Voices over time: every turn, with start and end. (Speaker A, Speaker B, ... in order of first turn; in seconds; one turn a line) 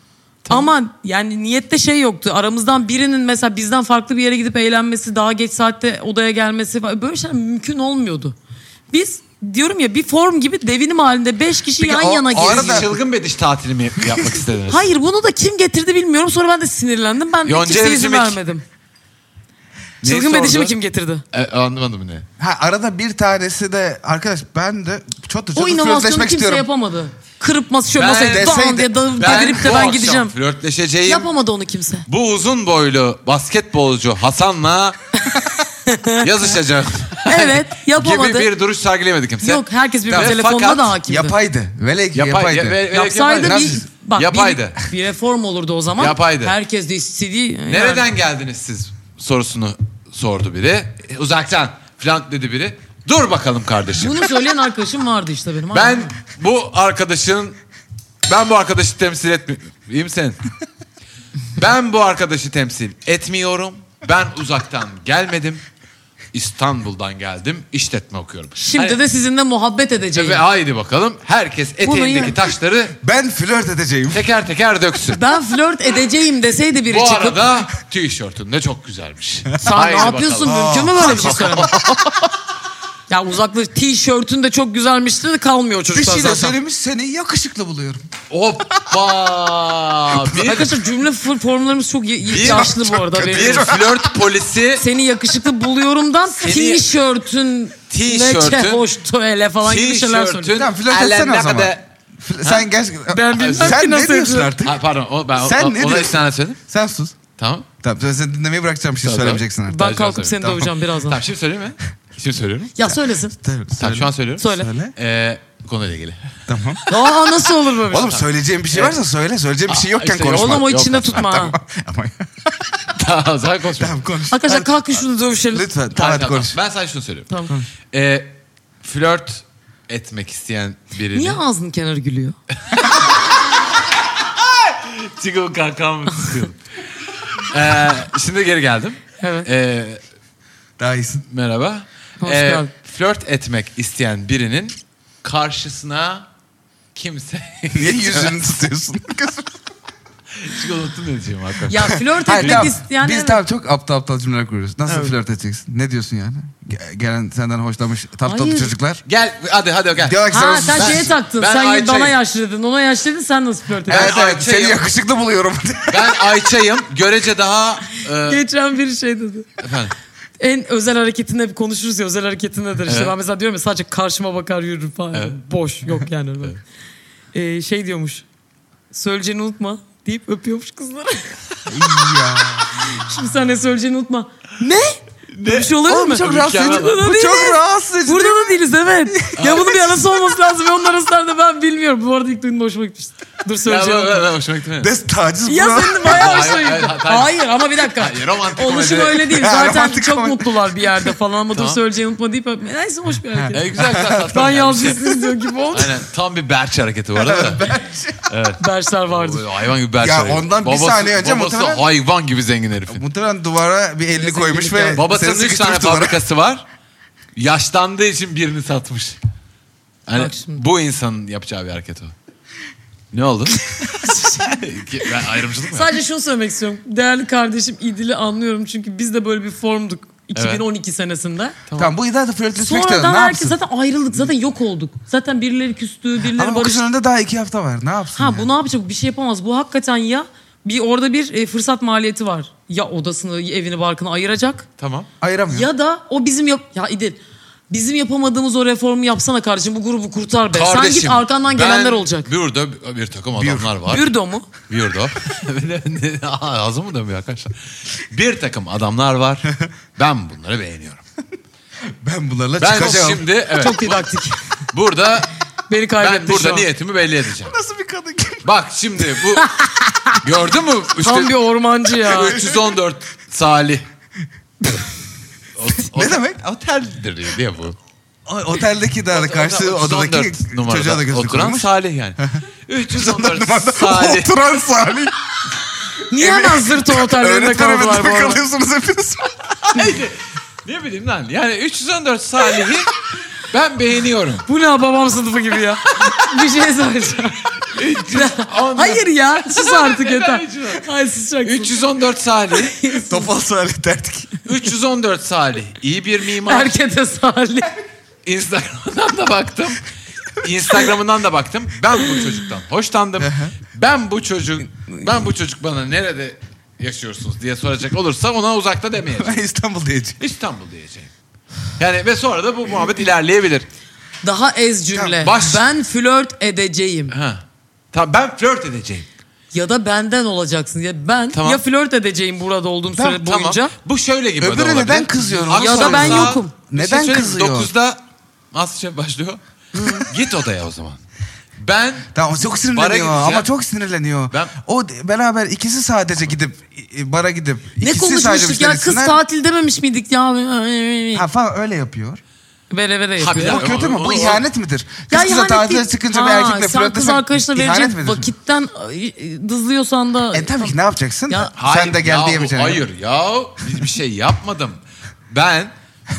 Speaker A: 0.4-0.7
Speaker B: 0.5-8.3
Speaker B: 8.9-12.9
Speaker C: 11.8-12.9
Speaker A: 12.3-14.8
Speaker C: 14.0-14.3
Speaker B: 14.7-18.6
Speaker A: 17.4-18.4
Speaker A: 20.0-20.7
Speaker B: 20.0-21.2
Speaker A: 21.3-22.2
Speaker C: 22.4-26.7
Speaker B: 25.5-30.3
Speaker A: 28.0-28.6
Speaker C: 28.2-28.9
Speaker A: 29.1-31.3
Speaker B: 31.1-32.0
Speaker A: 32.1-35.0
Speaker B: 35.9-36.3
Speaker A: 36.2-40.9
Speaker B: 37.2-38.5
Speaker B: 39.4-41.4
Speaker C: 40.1-40.4
Speaker C: 41.0-42.9
Speaker A: 42.1-44.8
Speaker B: 42.9-48.1
Speaker C: 43.4-43.9
Speaker A: 46.0-46.5
Speaker A: 47.7-54.3
Speaker B: 53.9-56.1
Speaker A: 55.7-57.6
Speaker A: 58.2-60.4
Speaker A: 61.6-65.6
Speaker A: 66.3-69.0
Speaker B: 68.5-70.4
Speaker A: 70.1-73.0
Speaker B: 71.8-72.4
Speaker C: 73.0-74.2
Speaker A: 74.1-75.2
Speaker B: 75.1-77.5
Speaker A: 76.9-82.2
Speaker B: 79.6-81.7
Speaker C: 80.4-81.7
Speaker B: 83.1-86.5
Speaker C: 85.9-88.0
Speaker A: 88.3-90.7
Speaker C: 90.1-90.7
Speaker B: 90.3-93.8
Speaker C: 92.3-94.1
Speaker A: 92.3-92.7
Speaker A: 93.2-94.8
Speaker B: 94.8-100.5
Speaker A: 96.4-96.8
Speaker A: 97.9-98.8
Speaker A: 99.6-101.8
Speaker C: 100.5-104.8
Speaker B: 103.1-104.6
Speaker A: 103.3-103.8
Speaker A: 104.6-106.6
Speaker C: 105.3-107.2
Speaker A: 107.4-107.7
Speaker C: 107.8-110.7
Speaker A: 109.0-112.7
Speaker B: 109.7-111.2
Speaker B: 112.8-113.3
Speaker C: 113.3-114.9
Speaker A: 113.8-117.1
Speaker B: 114.4-114.7
Speaker C: 116.5-116.8
Speaker B: 116.9-118.2
Speaker C: 117.9-122.8
Speaker A: 118.0-119.0
Speaker A: 119.7-121.3
Speaker B: 120.3-121.5
Speaker A: 122.9-124.0
Speaker C: 123.8-124.9
Speaker B: 124.3-125.7
Speaker C: 125.5-126.6
Speaker A: 125.9-127.3
Speaker B: 127.3-127.5
Speaker A: 127.9-131.4
Speaker B: 131.1-132.4
Speaker A: 132.7-133.4
Speaker A: 134.2-136.6
Speaker A: 137.3-140.0
Speaker B: 139.2-139.5
Speaker C: 140.8-141.2
Speaker A: 141.3-146.3
Speaker B: 142.2-142.7
Speaker A: 146.9-148.4
Speaker C: 147.7-149.6
Speaker A: 150.3-152.7
Speaker B: 151.7-153.4
Speaker C: 151.9-159.0
Speaker B: 158.2-158.7
Speaker A: 159.0-162.2
Speaker C: 160.0-161.1
Speaker B: 160.3-164.2
Speaker C: 163.8-166.2
Speaker A: 163.9-164.8
Speaker A: 165.9-168.4
Speaker B: 168.2-169.5
Speaker A: 169.6-169.9
Speaker B: 170.4-176.6
Speaker A: 172.8-173.1
Speaker A: 175.1-175.4
Speaker B: 177.3-178.2
Speaker B: 178.9-182.2
Speaker C: 181.7-182.9
Speaker B: 182.7-194.3
Speaker A: 185.3-186.9
Speaker C: 185.8-188.6
Speaker C: 189.1-189.8
Speaker A: 189.3-189.7
Speaker A: 193.6-194.9
Speaker C: 194.8-196.4
Speaker B: 195.5-206.0
Speaker A: 196.0-197.3
Speaker A: 197.9-199.3
Speaker C: 199.3-201.1
Speaker A: 201.5-201.8
Speaker C: 203.3-204.3
Speaker A: 203.5-205.1
Speaker A: 205.7-207.8
Speaker C: 207.2-208.3
Speaker A: 208.3-213.0
Speaker B: 208.6-209.4
Speaker C: 210.0-211.8
Speaker C: 212.9-216.2
Speaker B: 214.1-215.0
Speaker A: 214.9-216.6
Speaker A: 217.3-219.2
Speaker A: 220.1-222.1
Speaker B: 220.1-220.6
Speaker A: 223.1-225.9
Speaker B: 223.9-224.4
Speaker B: 225.7-231.6
Speaker A: 230.3-230.6
Speaker A: 231.7-231.9
Speaker C: 231.8-233.6
Speaker B: 232.6-236.8
Speaker C: 236.2-238.5
Speaker B: 238.2-244.7
Speaker A: 244.8-245.1
Speaker C: 245.2-245.7
Speaker B: 245.5-247.2
Speaker B: 247.7-252.3
Speaker A: 250.5-254.1
Speaker C: 253.3-253.7
Speaker B: 253.9-254.5
Speaker A: 254.7-261.0
Speaker C: 262.0-263.2
Speaker A: 262.6-264.1
Speaker B: 263.5-264.4
Speaker A: 264.7-265.3
Speaker B: 265.7-266.7
Speaker A: 266.0-267.5
Speaker C: 267.5-268.4
Speaker A: 268.4-269.5
Speaker B: 269.4-270.0
Speaker A: 270.2-271.3
Speaker B: 271.0-272.4
Speaker A: 272.1-273.8
Speaker C: 272.1-272.7
Speaker A: 275.6-277.8
Speaker C: 275.9-276.4
Speaker C: 278.3-282.4
Speaker A: 279.1-284.4
Speaker C: 282.9-285.1
Speaker B: 286.1-288.4
Speaker C: 286.1-289.8
Speaker A: 289.7-292.9
Speaker A: 293.5-294.4
Speaker B: 294.5-297.5
Speaker A: 295.9-296.4
Speaker A: 297.6-300.9
Speaker B: 298.1-301.8
Speaker A: 301.4-302.8
Speaker B: 302.5-303.3
Speaker C: 303.0-304.4
Speaker A: 304.4-306.7
Speaker B: 306.3-307.7
Speaker A: 308.2-309.8
Speaker A: 310.3-319.4
Speaker C: 313.2-313.5
Speaker C: 319.1-320.2
Speaker A: 320.2-321.1
Speaker A: 321.8-323.6
Speaker B: 324.2-327.1
Speaker C: 324.9-325.3
Speaker A: 325.2-325.7
Speaker A: 327.1-329.1
Speaker B: 329.5-333.7
Speaker A: 331.3-331.6
Speaker C: 332.9-333.3
Speaker A: 333.2-338.0
Speaker C: 334.4-337.7
Speaker B: 335.5-336.5
Speaker A: 338.5-341.0
Speaker B: 339.8-340.0
Speaker A: 341.6-343.5
Speaker C: 342.1-349.2
Speaker B: 347.8-351.3
Speaker C: 351.1-352.2
Speaker B: 352.7-353.8
Speaker A: 353.2-354.4
Speaker C: 353.3-358.3
Speaker B: 355.1-360.7
Speaker C: 360.3-362.8
Speaker A: 361.5-365.7